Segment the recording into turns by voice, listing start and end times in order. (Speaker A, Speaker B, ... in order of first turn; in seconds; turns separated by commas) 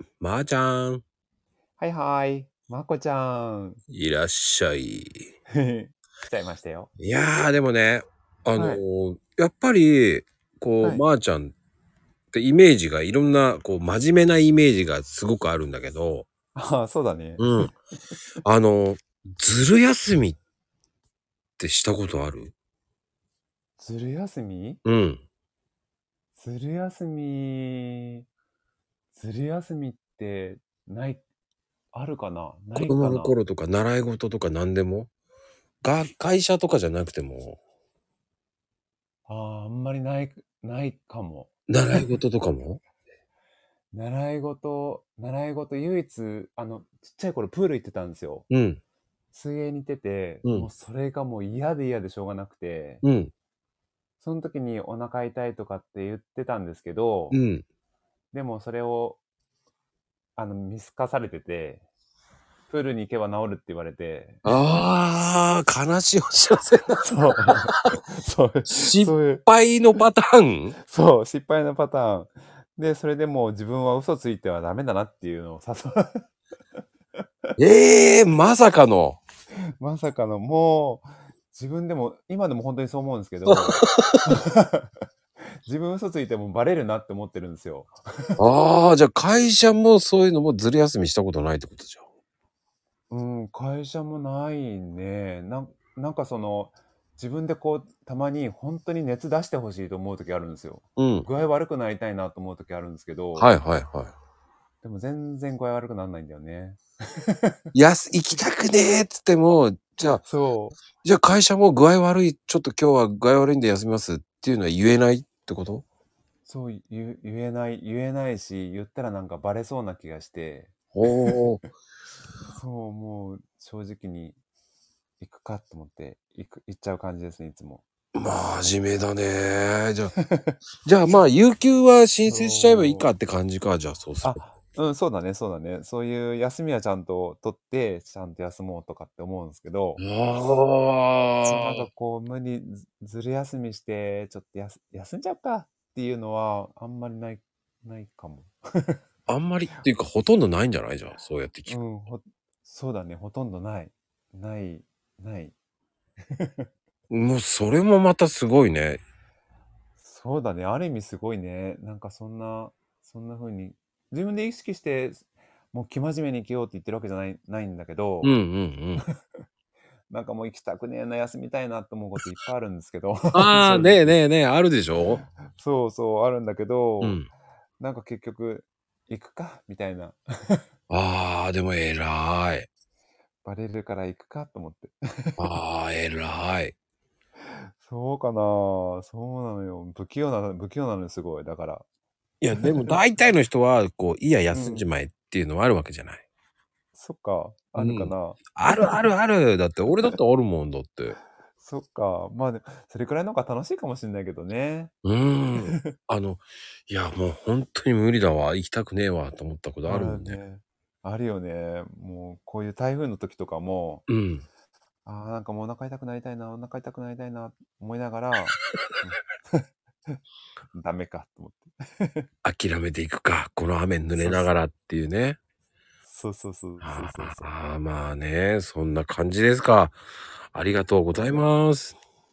Speaker A: 0.2-1.0, Speaker B: 1.8-3.8, Speaker A: 3.9-5.3, Speaker B: 5.5-6.9, Speaker A: 7.0-11.5, Speaker B: 8.5-8.8, Speaker A: 12.3-16.3, Speaker B: 16.5-17.4, Speaker A: 17.4-17.7, Speaker A: 18.4-20.4, Speaker A: 21.6-22.5, Speaker B: 23.8-24.8, Speaker A: 24.8-25.2, Speaker B: 26.3-28.2, Speaker B: 29.1-31.2, Speaker B: 31.9-33.4, Speaker A: 32.7-35.1, Speaker A: 35.8-37.6, Speaker B: 39.3-42.1, Speaker A: 41.7-42.8, Speaker B: 43.9-48.5, Speaker A: 48.5-48.8, Speaker B: 49.3-53.0, Speaker A: 53.0-53.3, Speaker B: 54.2-57.4, Speaker A: 57.3-57.6, Speaker B: 58.3-59.2, Speaker B: 60.4-61.8, Speaker B: 62.7-64.6, Speaker A: 64.4-67.7, Speaker B: 67.0-69.5, Speaker A: 68.7-70.7, Speaker B: 70.8-76.2, Speaker A: 77.6-79.2, Speaker B: 79.8-84.9, Speaker A: 83.5-84.2, Speaker B: 85.7-88.4, Speaker A: 88.4-92.0, Speaker B: 93.1-103.5, Speaker A: 101.0-101.3, Speaker A: 103.3-104.1, Speaker B: 104.8-107.6, Speaker A: 107.7-110.2, Speaker B: 110.2-110.8, Speaker A: 111.0-115.8, Speaker B: 116.5-120.7, Speaker A: 120.9-121.7, Speaker B: 122.5-124.4, Speaker B: 125.2-127.8, Speaker A: 128.1-130.1, Speaker B: 130.2-130.5, Speaker A: 130.8-134.4, Speaker B: 132.2-133.1, Speaker B: 134.2-140.0, Speaker A: 140.0-141.9, Speaker B: 141.4-149.0, Speaker A: 149.3-151.8, Speaker B: 151.7-155.5, Speaker B: 156.3-156.7, Speaker A: 157.1-159.0, Speaker B: 160.0-168.3, Speaker A: 168.2-169.0, Speaker B: 170.1-174.2, Speaker A: 173.3-175.2, Speaker B: 175.5-177.2, Speaker A: 177.0-177.3, Speaker B: 177.8-180.6, Speaker A: 180.9-182.7, Speaker B: 183.4-185.4, Speaker A: 185.4-186.7, Speaker B: 187.8-191.8, Speaker A: 192.4-196.2, Speaker B: 192.6-193.0, Speaker B: 194.5-194.8, Speaker B: 196.9-199.0, Speaker A: 197.8-201.2, Speaker B: 201.6-204.9, Speaker A: 205.0-210.4, Speaker B: 205.6-205.9, Speaker B: 209.9-214.0, Speaker A: 214.1-214.4, Speaker B: 215.0-219.6, Speaker B: 220.7-222.2, Speaker A: 222.4-225.4, Speaker B: 224.2-224.5, Speaker B: 226.1-227.5, Speaker A: 226.8-230.0, Speaker A: 230.5-232.0, Speaker B: 231.1-231.4